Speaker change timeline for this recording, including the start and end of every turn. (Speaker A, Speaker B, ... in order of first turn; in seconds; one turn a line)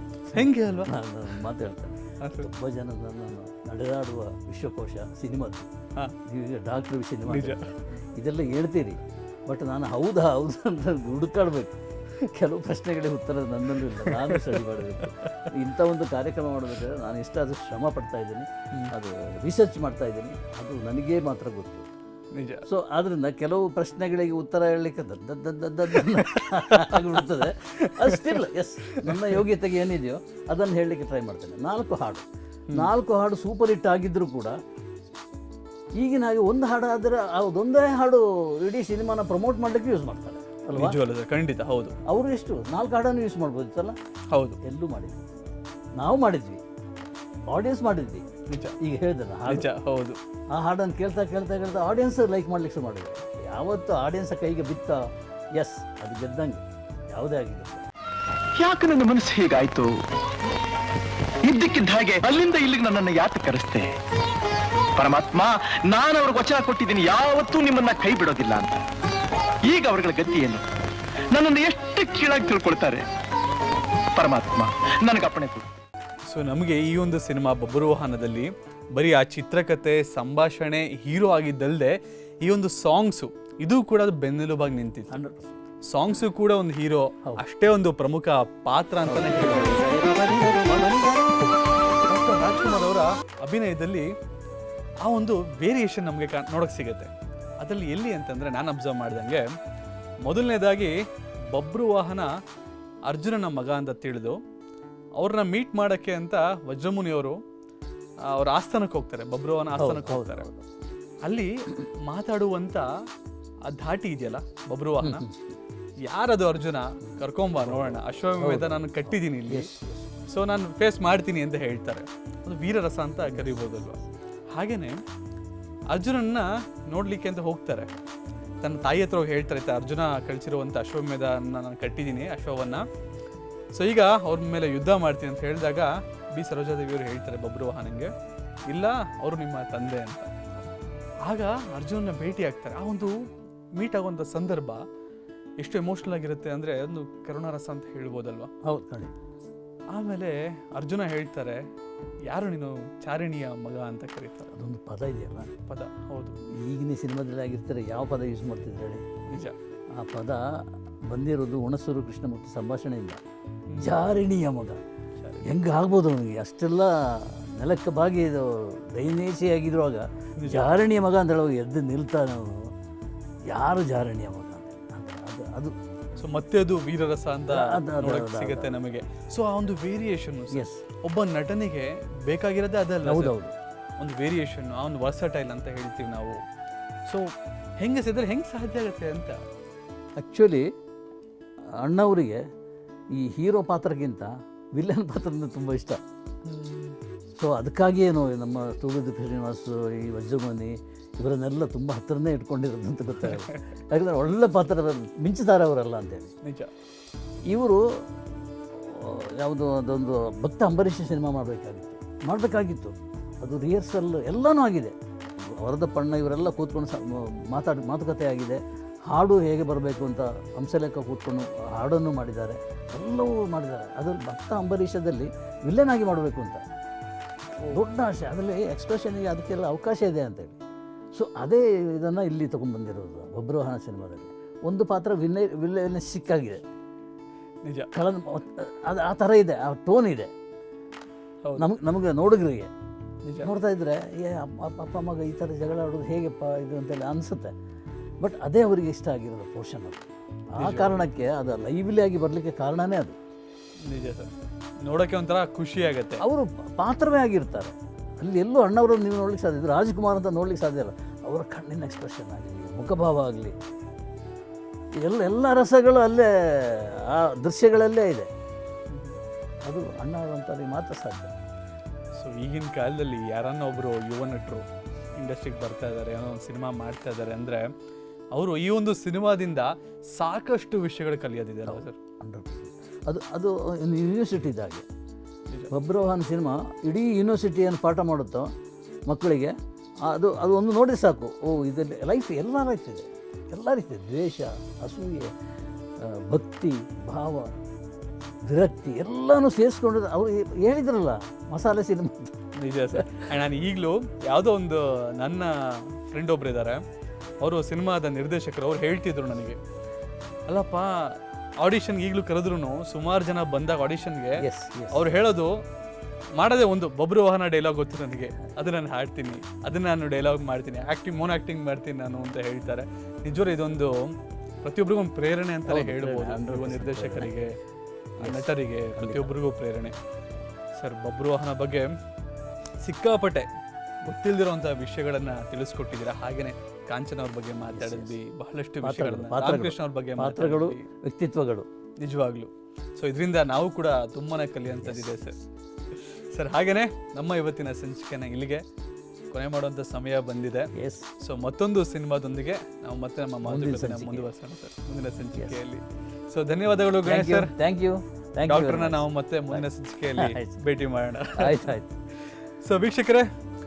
Speaker A: 0.3-0.9
Speaker B: 0.3-5.7
Speaker A: 2.2-2.5
Speaker B: 6.2-21.9
Speaker A: 7.3-7.7
Speaker A: 14.0-15.1
Speaker A: 22.3-22.6
Speaker B: 22.6-34.6
Speaker A: 26.1-27.2
Speaker A: 27.8-28.3
Speaker A: 29.0-29.3
Speaker B: 36.0-41.0
Speaker A: 40.7-42.0
Speaker B: 42.1-44.0
Speaker A: 44.3-44.6
Speaker B: 44.6-45.2
Speaker B: 46.0-46.6
Speaker B: 47.5-48.3
Speaker A: 48.5-48.8
Speaker B: 48.8-49.7
Speaker A: 49.5-50.2
Speaker B: 50.5-55.0
Speaker B: 55.5-57.8
Speaker C: 58.6-59.9
Speaker C: 61.4-63.9
Speaker C: 65.0-68.7
Speaker C: 69.7-70.6
Speaker C: 71.3-73.0
Speaker C: 74.2-75.6
Speaker A: 76.3-85.2
Speaker B: 85.1-85.6
Speaker A: 85.9-91.4
Speaker B: 89.0-90.8
Speaker A: 92.0-94.1
Speaker A: 95.0-99.5
Speaker A: 100.2-101.0
Speaker A: 101.5-102.3
Speaker A: 103.1-104.4
Speaker A: 105.2-107.4
Speaker A: 108.3-110.4
Speaker B: 109.7-110.7
Speaker A: 111.2-111.5
Speaker A: 112.0-112.9
Speaker A: 113.7-115.2
Speaker B: 115.0-115.5
Speaker A: 116.0-119.7
Speaker B: 117.0-120.1
Speaker A: 120.3-124.0
Speaker B: 123.3-123.8
Speaker A: 124.5-125.0
Speaker A: 125.9-127.9
Speaker A: 128.6-132.8
Speaker A: 133.7-138.1
Speaker A: 138.7-140.3
Speaker A: 141.2-144.8
Speaker A: 145.6-148.5
Speaker B: 148.6-149.1
Speaker A: 149.9-151.6
Speaker A: 152.3-154.5
Speaker B: 154.5-155.5
Speaker A: 155.7-156.4
Speaker B: 156.5-159.2
Speaker A: 159.3-159.6
Speaker B: 159.9-163.2
Speaker A: 163.7-164.0
Speaker B: 163.8-164.8
Speaker B: 165.4-172.7
Speaker A: 170.4-170.7
Speaker B: 173.5-175.7
Speaker A: 176.2-183.3
Speaker B: 177.5-178.8
Speaker B: 180.5-180.8
Speaker B: 183.0-183.5
Speaker A: 184.0-186.4
Speaker A: 187.1-189.4
Speaker B: 190.2-190.6
Speaker B: 191.8-192.4
Speaker B: 193.1-196.0
Speaker A: 196.4-197.0
Speaker B: 197.3-206.3
Speaker A: 203.2-203.5
Speaker A: 206.4-206.7
Speaker B: 207.5-208.0
Speaker B: 208.7-214.9
Speaker B: 215.6-226.6
Speaker B: 227.6-230.6
Speaker B: 231.1-236.6
Speaker A: 237.6-237.9
Speaker B: 237.9-240.3
Speaker B: 241.6-242.7
Speaker A: 243.2-243.5
Speaker B: 243.4-247.5
Speaker B: 248.2-253.2
Speaker A: 250.6-251.1
Speaker A: 253.8-254.3
Speaker A: 254.8-256.2
Speaker B: 256.2-263.6
Speaker B: 265.0-268.3
Speaker A: 268.9-269.2
Speaker B: 269.6-271.3
Speaker A: 272.1-277.7
Speaker A: 278.3-282.0
Speaker B: 281.7-284.9
Speaker B: 285.7-288.5
Speaker B: 289.1-295.3
Speaker B: 296.0-297.5
Speaker B: 298.5-302.4
Speaker A: 302.6-306.8
Speaker B: 302.9-303.2
Speaker A: 307.4-309.6
Speaker A: 310.5-315.6
Speaker B: 314.4-315.1
Speaker A: 316.3-327.5
Speaker B: 325.7-327.4
Speaker B: 328.2-329.3
Speaker A: 328.2-329.9
Speaker A: 330.7-331.9
Speaker A: 332.8-333.5
Speaker A: 334.0-340.9
Speaker B: 337.7-338.1
Speaker B: 338.8-341.7
Speaker A: 342.0-345.3
Speaker B: 344.8-345.4
Speaker A: 345.9-348.6
Speaker A: 349.3-357.5
Speaker B: 350.7-351.1
Speaker B: 353.4-354.3
Speaker B: 355.3-355.6
Speaker B: 357.1-360.6
Speaker A: 358.5-361.7
Speaker B: 361.4-361.9
Speaker A: 362.6-363.3